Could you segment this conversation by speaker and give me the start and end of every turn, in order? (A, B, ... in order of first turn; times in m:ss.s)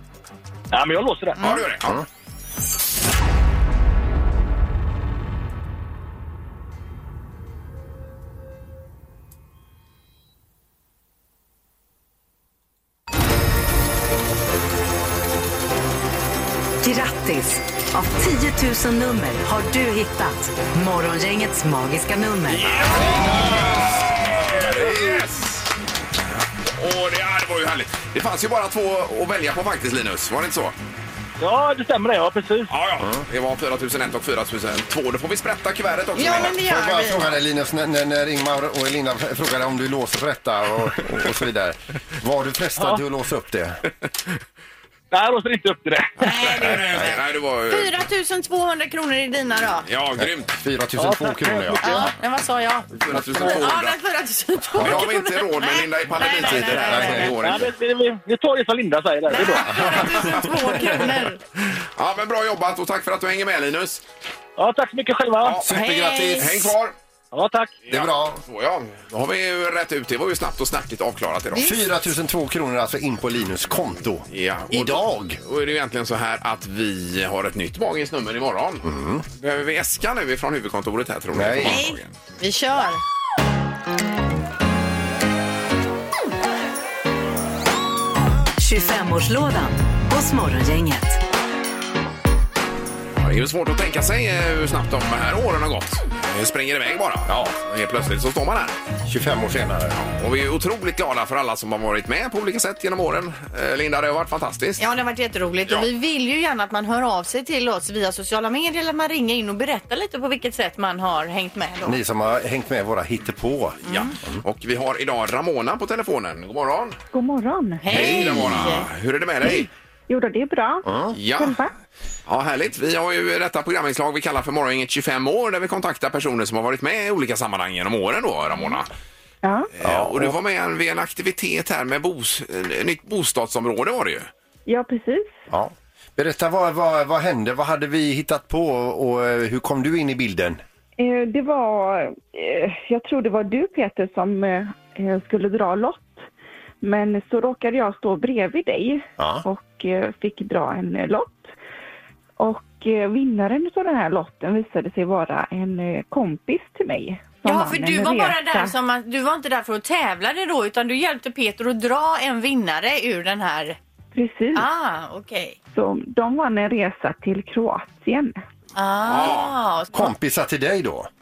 0:00.7-0:01.4 A
0:01.4-0:01.6 B
0:01.4-0:01.9 C
0:16.8-0:22.6 D
0:22.6-0:25.7 C
0:26.6-0:30.7 C
0:31.4-0:32.7 A
0:32.7-0:36.6 C
0:36.2-0:37.3 B
0:36.3-0:43.8 E
0:45.1-0:46.2 A
0:46.2-0:47.9 C
0:46.2-0:49.8 B
0:46.8-0:47.1 E
0:49.8-0:50.5 C
0:50.2-0:52.1 E
0:51.0-0:52.1 A
0:51.8-0:57.4 B
0:53.0-0:54.0 C
0:54.7-0:57.7 C
0:54.8-0:55.0 E
0:56.3-0:57.4 E
0:57.4-0:59.7 A
0:59.3-1:01.4 B
0:59.7-1:00.9 E
1:00.0-1:00.9 C
1:01.7-1:04.0 C
1:04.6-1:05.6 A
1:05.4-1:05.7 C
1:05.6-1:06.6 E
1:05.7-1:06.7 B
1:06.3-1:06.9 C
1:07.3-1:07.8 A
1:07.9-1:11.9 C
1:07.9-1:08.4 E
1:11.5-1:15.4 E
1:14.3-1:22.2 C
1:18.8-1:19.2 E
1:21.3-1:21.8 E
1:21.6-1:23.0 B
1:28.6-1:31.2 D
1:33.2-1:38.8 C
1:39.0-1:40.0 E
1:40.0-1:44.8 C
1:44.8-1:52.0 B
1:51.8-1:54.4 E
1:53.8-1:54.1 B
1:53.8-1:57.0 C
1:57.1-1:58.0 F
1:57.8-1:58.9 B
1:57.9-1:59.7 C
1:57.9-1:58.7 E
1:59.5-2:01.7 F
2:00.8-2:01.2 E
2:01.1-2:01.6 C
2:02.3-2:08.9 C
2:09.4-2:09.7 F
2:09.7-2:14.3 C
2:09.8-2:10.3 E
2:14.7-2:15.4 F
2:15.5-2:20.6 E
2:21.0-2:26.3 F
2:26.8-2:31.5 F
2:29.2-2:29.4 E
2:32.4-2:38.7 F
2:37.4-2:43.8 B
2:44.1-2:44.7 F
2:44.5-2:45.6 B
2:45.7-2:48.4 F
2:48.8-2:50.1 B
2:49.0-2:49.5 C
2:49.9-2:51.1 E